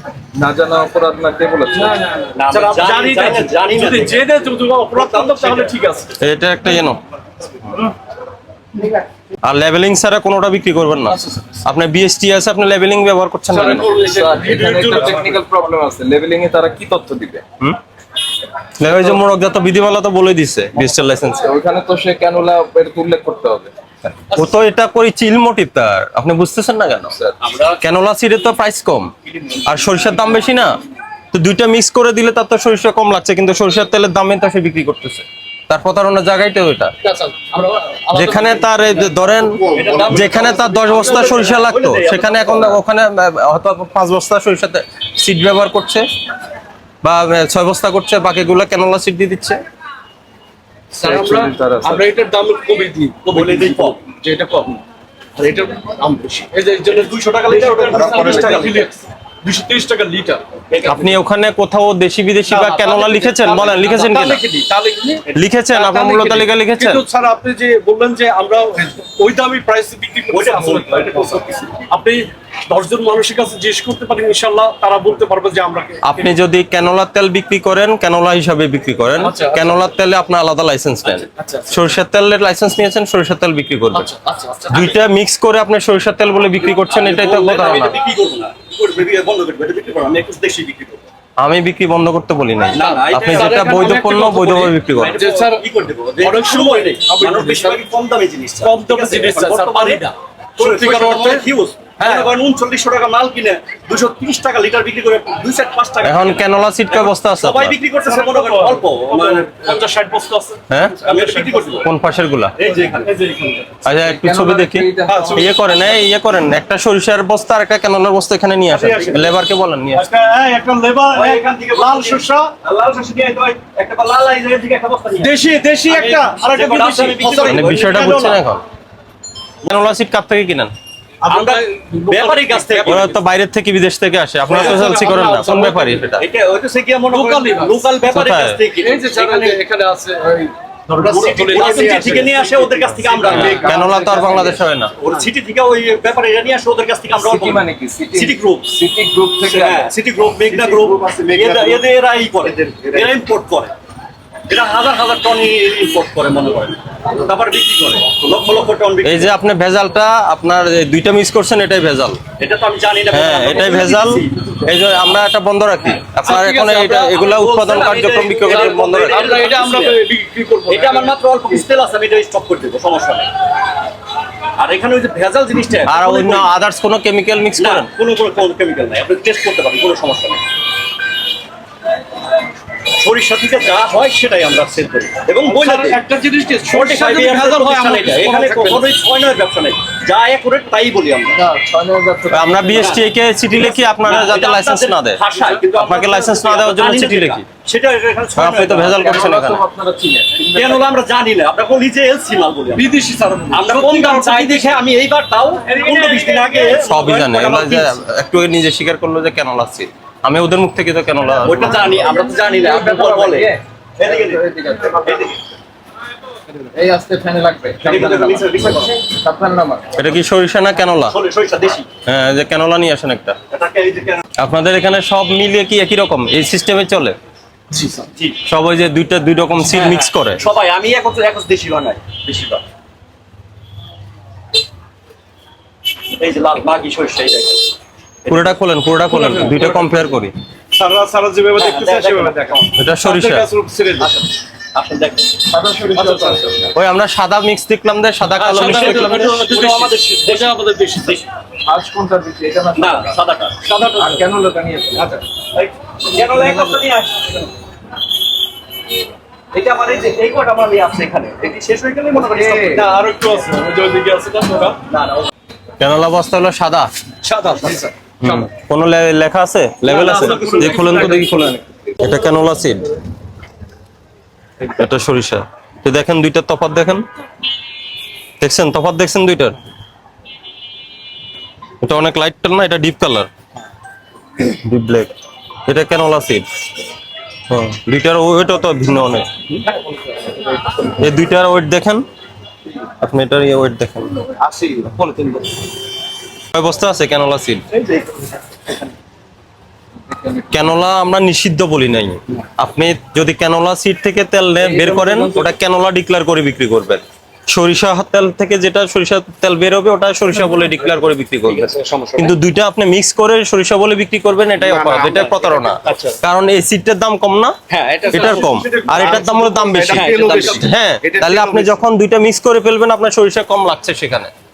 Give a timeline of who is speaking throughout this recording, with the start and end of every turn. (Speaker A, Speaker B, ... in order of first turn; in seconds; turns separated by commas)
Speaker A: 0.3-2.0, Speaker B: 1.8-6.1, Speaker C: 2.4-4.3, Speaker C: 4.9-5.7, Speaker D: 6.2-7.0, Speaker D: 9.4-14.0, Speaker B: 13.5-15.4, Speaker A: 13.8-17.4, Speaker D: 18.8-21.5, Speaker A: 21.4-23.7, Speaker B: 24.3-24.6, Speaker D: 24.3-27.1, Speaker C: 27.4-27.8, Speaker D: 27.8-29.1, Speaker C: 29.3-29.8, Speaker D: 29.7-30.8, Speaker D: 31.3-36.9, Speaker B: 37.0-41.2, Speaker D: 38.1-46.0, Speaker C: 39.6-42.8, Speaker D: 47.0-49.6, Speaker B: 50.9-54.8, Speaker A: 51.0-52.1, Speaker C: 53.2-54.0, Speaker B: 55.4-60.4, Speaker C: 56.9-58.9, Speaker A: 58.1-58.6, Speaker C: 60.7-61.2, Speaker D: 60.9-64.4, Speaker B: 62.5-76.3, Speaker D: 65.3-67.0, Speaker C: 70.3-71.7, Speaker D: 76.0-84.1, Speaker B: 79.2-79.9, Speaker B: 81.4-81.8, Speaker B: 83.9-85.0, Speaker D: 84.7-88.0, Speaker C: 86.7-91.0, Speaker D: 91.4-95.2, Speaker C: 92.7-94.0, Speaker B: 92.8-95.7, Speaker C: 94.9-100.1, Speaker B: 96.2-97.8, Speaker B: 98.6-101.5, Speaker C: 100.6-109.8, Speaker B: 102.0-102.3, Speaker D: 106.0-107.8, Speaker B: 108.0-111.9, Speaker D: 110.7-111.0, Speaker C: 111.0-111.9, Speaker D: 111.8-112.5, Speaker C: 112.6-113.1, Speaker B: 113.0-113.8, Speaker D: 113.8-120.0, Speaker A: 113.9-115.9, Speaker B: 115.1-115.5, Speaker B: 118.7-119.4, Speaker B: 119.9-122.5, Speaker C: 121.1-125.3, Speaker B: 125.2-128.2, Speaker C: 125.9-128.4, Speaker D: 127.5-128.6, Speaker D: 129.7-130.7, Speaker B: 131.2-133.1, Speaker C: 131.3-133.1, Speaker D: 132.8-136.2, Speaker B: 134.5-136.1, Speaker C: 134.5-135.1, Speaker C: 136.2-139.6, Speaker B: 137.1-137.8, Speaker D: 138.1-138.6, Speaker B: 138.8-143.8, Speaker C: 141.0-143.7, Speaker A: 141.6-142.1, Speaker A: 143.1-144.6, Speaker D: 143.3-144.9, Speaker C: 145.0-148.8, Speaker A: 147.1-149.9, Speaker C: 149.4-153.7, Speaker B: 150.5-151.7, Speaker A: 150.7-151.5, Speaker A: 152.5-153.1, Speaker C: 154.5-159.3, Speaker D: 159.0-162.2, Speaker C: 162.4-164.4, Speaker D: 163.1-169.4, Speaker C: 165.8-166.1, Speaker B: 166.2-167.2, Speaker C: 167.1-170.0, Speaker B: 168.5-171.2, Speaker C: 170.7-173.3, Speaker C: 174.6-176.5, Speaker D: 175.9-177.9, Speaker C: 177.6-180.4, Speaker C: 183.0-186.0, Speaker B: 185.5-188.9, Speaker C: 186.7-191.3, Speaker A: 191.3-192.9, Speaker D: 192.3-195.2, Speaker C: 192.7-199.4, Speaker B: 195.3-196.3, Speaker D: 195.7-197.4, Speaker D: 198.4-199.6, Speaker A: 198.9-200.9, Speaker C: 200.4-202.9, Speaker B: 202.8-204.8, Speaker C: 203.5-208.0, Speaker B: 205.7-206.9, Speaker D: 206.8-212.0, Speaker C: 211.4-214.4, Speaker A: 212.0-215.3, Speaker C: 215.0-215.4, Speaker A: 216.7-219.9, Speaker C: 217.8-219.0, Speaker D: 220.0-221.2, Speaker C: 221.1-221.9, Speaker D: 222.1-223.4, Speaker C: 223.5-224.2, Speaker D: 224.4-227.2, Speaker B: 227.7-228.1, Speaker D: 228.5-230.4, Speaker C: 229.6-232.6, Speaker C: 236.2-237.7, Speaker C: 238.2-238.5, Speaker D: 238.3-240.3, Speaker B: 239.1-240.1, Speaker B: 240.7-244.1, Speaker C: 241.6-242.7, Speaker D: 242.8-243.4, Speaker C: 244.0-245.4, Speaker A: 245.5-246.7, Speaker B: 245.9-246.4, Speaker D: 246.7-249.3, Speaker B: 248.4-251.2, Speaker C: 248.6-251.2, Speaker A: 251.7-253.2, Speaker C: 252.8-254.2, Speaker A: 254.0-255.2, Speaker C: 255.5-257.5, Speaker A: 256.4-256.8, Speaker C: 259.5-262.9, Speaker A: 262.2-262.9, Speaker B: 262.4-264.8, Speaker C: 264.9-265.3, Speaker D: 265.8-266.9, Speaker B: 267.2-268.5, Speaker D: 268.2-272.9, Speaker B: 269.9-271.3, Speaker C: 269.9-271.3, Speaker D: 274.7-277.1, Speaker D: 278.4-279.6, Speaker D: 281.8-283.3, Speaker D: 284.5-285.1, Speaker D: 285.7-286.4, Speaker D: 287.5-289.3, Speaker A: 289.7-290.8, Speaker D: 290.9-292.0, Speaker D: 293.0-294.1, Speaker A: 294.4-295.1, Speaker C: 295.1-295.4, Speaker D: 296.5-297.6, Speaker C: 297.7-298.8, Speaker A: 300.1-300.8, Speaker D: 300.5-317.6, Speaker A: 304.6-305.5, Speaker C: 311.5-312.4, Speaker B: 314.6-316.1, Speaker C: 315.0-316.1, Speaker C: 317.7-318.6, Speaker B: 318.1-321.8, Speaker D: 318.1-324.3, Speaker C: 319.9-320.7